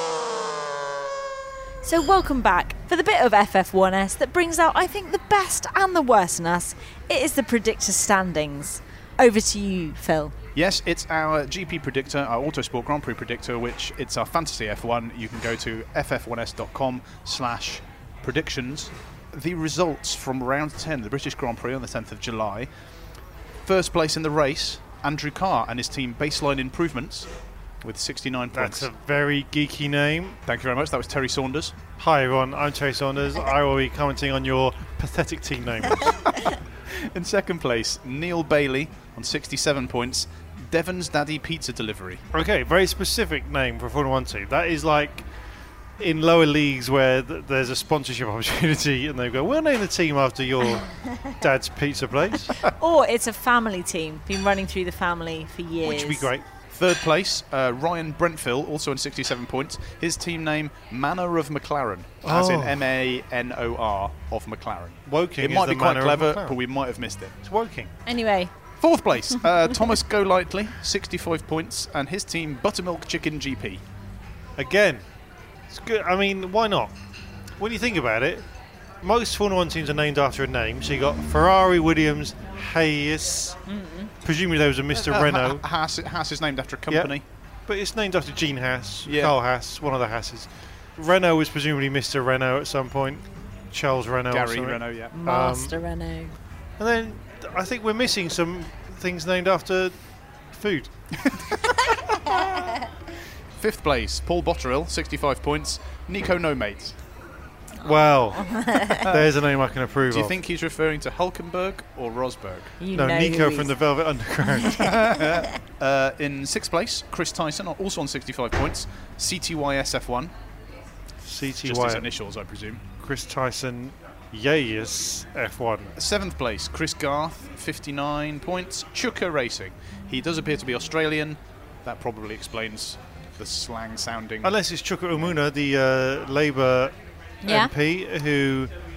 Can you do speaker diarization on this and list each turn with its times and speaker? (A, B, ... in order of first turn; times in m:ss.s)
0:01.8-0:10.3 A
0:10.6-0:22.7 B
0:23.6-0:27.3 B
0:27.8-0:28.9 B
0:28.5-0:30.4 C
0:30.5-0:31.8 B
0:31.9-0:36.2 C
0:37.1-0:42.2 B
0:42.3-0:45.3 C
0:46.0-0:52.6 C
0:52.6-0:56.3 A
0:55.8-0:56.5 C
0:56.7-1:07.4 B
1:02.2-1:02.8 C
1:05.1-1:06.6 C
1:07.4-1:07.9 C
1:08.1-1:08.5 A
1:08.8-1:13.8 B
1:14.6-1:15.0 C
1:15.7-1:16.9 C
1:17.6-1:18.4 C
1:19.0-1:23.6 C
1:23.7-1:24.1 A
1:24.2-1:25.6 C
1:25.0-1:27.2 B
1:26.9-1:27.2 C
1:27.7-1:35.8 C
1:29.1-1:29.4 B
1:34.3-1:35.1 B
1:35.1-1:36.4 A
1:36.8-1:39.9 C
1:40.5-1:40.9 C
1:43.6-1:47.0 B
1:47.8-1:50.3 C
1:47.8-1:49.1 A
1:49.0-1:49.3 B
1:50.1-1:52.7 B
1:52.8-1:53.8 A
1:52.9-1:54.9 C
1:54.6-2:00.3 B
2:01.2-2:02.1 C
2:01.6-2:02.8 B
2:03.0-2:05.9 C
2:06.0-2:14.5 B
2:14.4-2:16.9 C
2:17.4-2:17.7 A
2:17.5-2:18.7 C